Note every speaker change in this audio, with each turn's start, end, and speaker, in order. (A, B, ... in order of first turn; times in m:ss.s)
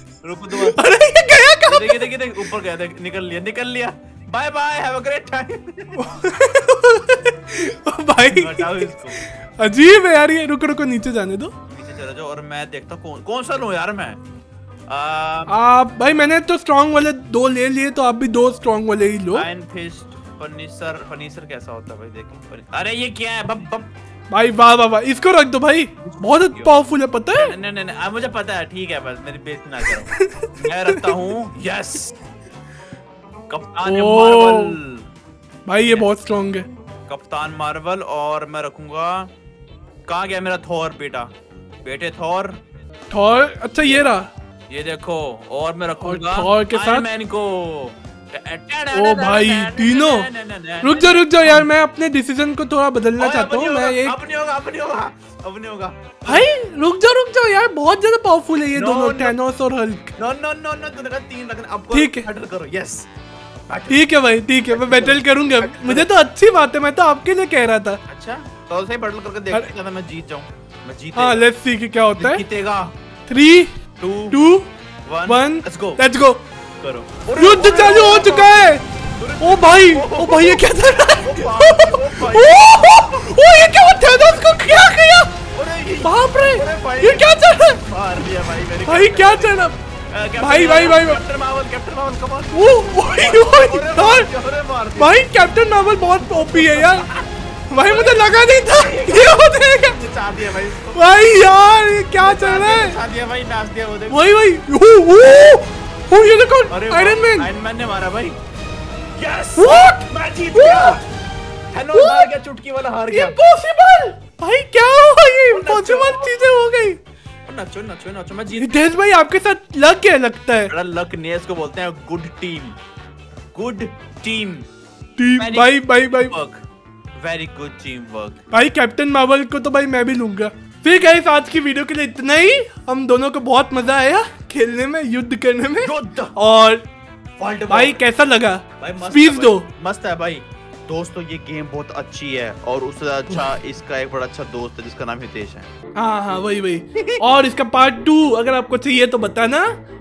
0:00.2-0:00.9 A
0:00.5-0:02.1 B
0:01.6-0:06.0 A
0:06.0-0:11.5 B
0:08.3-0:09.2 A
0:11.7-0:14.2 A
0:14.9-0:15.5 A
0:15.5-0:19.4 B
0:19.3-0:23.9 A
0:24.3-0:27.5 B
0:26.0-0:26.8 A
0:27.3-0:32.2 A
0:30.1-0:31.2 B
0:33.5-0:35.1 A
0:33.8-0:34.8 B
0:35.7-0:36.7 B
0:35.8-0:36.1 A
0:37.1-0:39.3 A
0:40.0-0:41.3 A
0:41.8-0:42.6 A
0:43.1-0:44.3 B
0:43.8-0:44.1 A
0:44.7-0:51.7 A
0:46.0-0:47.0 B
0:48.9-0:50.3 B
0:50.8-0:54.1 B
0:53.2-0:56.5 A
0:56.2-1:00.1 B
0:58.7-0:59.4 A
1:00.2-1:03.1 A
1:01.9-1:02.2 B
1:03.6-1:04.1 A
1:03.9-1:08.0 B
1:04.7-1:06.1 A
1:08.1-1:11.4 A
1:11.2-1:12.4 B
1:12.2-1:12.9 A
1:13.3-1:13.8 B
1:14.0-1:14.4 A
1:14.3-1:14.7 B
1:15.0-1:16.0 A
1:15.2-1:16.4 B
1:16.8-1:23.3 A
1:17.4-1:18.8 B
1:19.4-1:25.3 B
1:25.5-1:35.3 A
1:26.0-1:27.8 B
1:28.8-1:29.8 B
1:30.4-1:31.2 B
1:32.5-1:34.3 B
1:35.0-1:37.1 B
1:36.2-1:41.2 A
1:37.7-1:40.0 B
1:40.9-1:43.0 B
1:42.2-1:44.3 A
1:44.1-1:47.5 B
1:46.7-1:48.4 A
1:49.2-1:51.0 A
1:49.6-1:51.0 B
1:51.7-1:53.4 A
1:51.9-1:52.3 B
1:53.1-1:57.0 B
1:55.5-1:56.4 A
1:57.5-1:58.8 A
1:58.6-2:00.7 B
2:00.7-2:02.8 A
2:03.5-2:04.7 A
2:05.2-2:06.3 B
2:05.4-2:06.6 A
2:07.2-2:08.4 A
2:08.5-2:16.8 B
2:15.8-2:16.4 A
2:17.4-2:18.0 A
2:17.7-2:19.7 B
2:18.8-2:25.7 A
2:26.0-2:29.8 B
2:26.9-2:27.2 A